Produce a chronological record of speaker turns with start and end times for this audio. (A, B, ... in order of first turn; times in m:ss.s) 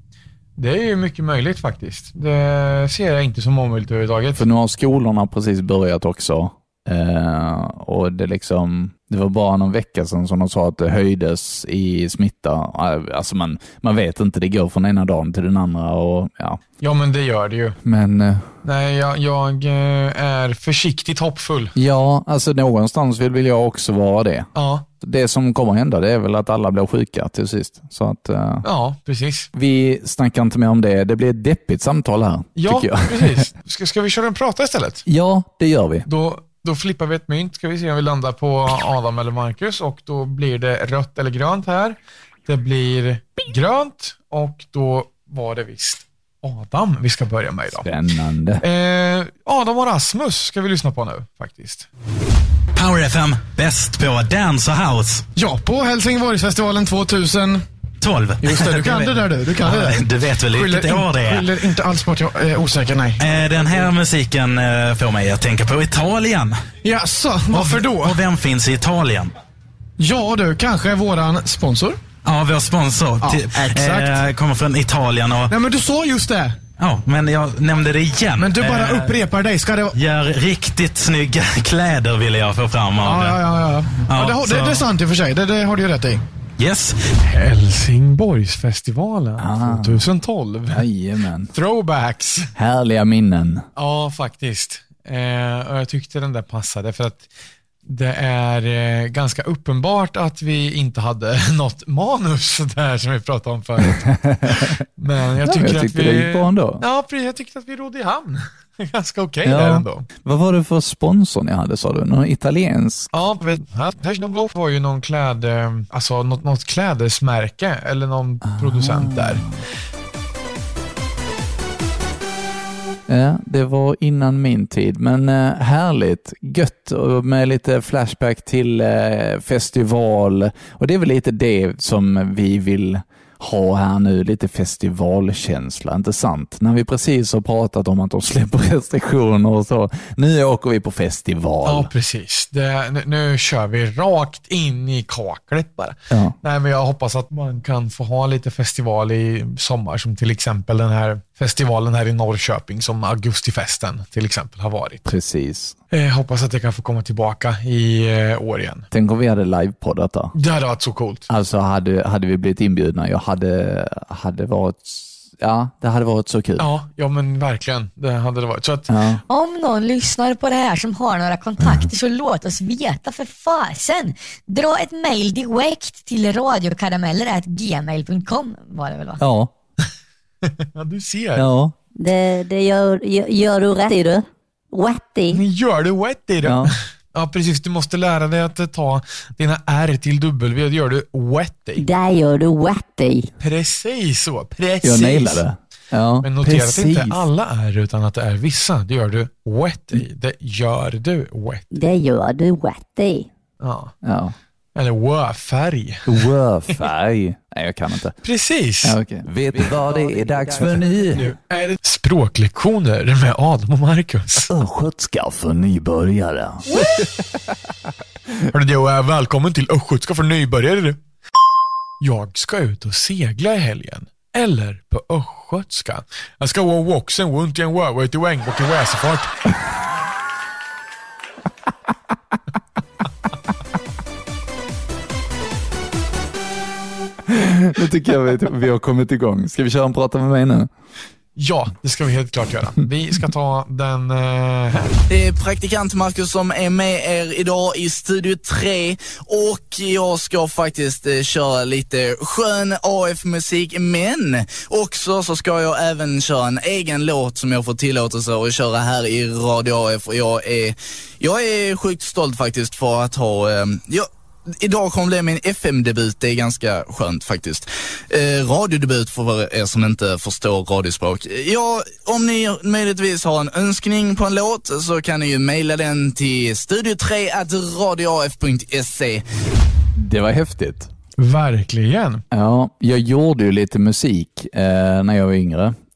0:00.6-0:04.4 A
0:04.4-0:16.6 B
0:16.8-0:17.8 A
0:17.8-0:18.5 B
0:18.6-0:21.7 A
0:21.8-0:24.5 B
0:24.6-0:24.8 A
0:25.0-0:28.7 B
0:28.6-0:29.5 A
0:29.5-0:33.5 B
0:32.6-0:35.0 A
0:35.1-0:36.1 B
0:36.1-0:47.9 A
0:47.8-0:48.6 B
0:48.6-0:51.9 A
0:52.8-0:55.3 C
0:55.4-0:57.6 D
0:58.0-1:01.6 C
0:58.4-1:03.9 D
1:03.2-1:06.6 C
1:06.8-1:08.2 D
1:07.5-1:09.3 C
1:10.0-1:12.0 D
1:12.2-1:15.5 C
1:13.2-1:14.2 D
1:15.5-1:16.6 D
1:16.8-1:19.2 C
1:18.4-1:20.0 D
1:19.9-1:23.4 C
1:23.0-1:26.2 D
1:24.0-1:24.9 C
1:26.6-1:27.0 C
1:27.2-1:30.8 A
1:29.4-1:30.1 B
1:30.7-1:31.5 B
1:31.5-1:32.5 A
1:32.6-1:33.7 B
1:33.8-1:37.3 A
1:37.8-1:50.1 A
1:43.8-1:44.8 B
1:45.4-1:46.8 B
1:49.4-1:53.1 B
1:53.1-1:59.5 A
1:58.5-1:59.6 B
2:03.1-2:21.9 B
2:21.6-2:35.0 A
2:26.1-2:26.4 B
2:35.0-2:35.8 B
2:35.9-2:38.9 A
2:38.9-2:40.3 B
2:40.4-2:41.3 A
2:41.3-2:46.7 B
2:46.6-2:48.9 A
2:48.9-2:49.2 B
2:49.3-2:59.2 E
2:59.2-2:59.5 B
3:00.5-3:01.5 A
3:01.4-3:01.8 B
3:02.0-3:05.4 F
3:05.3-3:11.8 A
3:06.4-3:06.7 B
3:11.8-3:13.3 F
3:13.4-3:15.4 A
3:14.8-3:17.2 B
3:16.2-3:21.7 A
3:21.7-3:23.3 F
3:23.6-3:23.9 A
3:24.0-3:24.4 B
3:24.8-3:26.8 A
3:26.1-3:28.2 B
3:28.2-3:29.0 A
3:28.8-3:31.3 B
3:29.9-3:30.9 F
3:31.1-3:34.5 A
3:34.5-3:37.1 B
3:38.5-3:41.0 A
3:42.0-3:49.5 A
3:57.3-4:00.7 B
4:01.4-4:04.9 A
4:05.1-4:20.7 G
4:21.2-4:24.0 G
4:24.6-4:27.6 G
4:28.2-4:31.4 G
4:32.1-4:39.1 G
4:40.0-4:40.9 B
4:41.2-4:42.2 A
4:42.3-4:45.8 B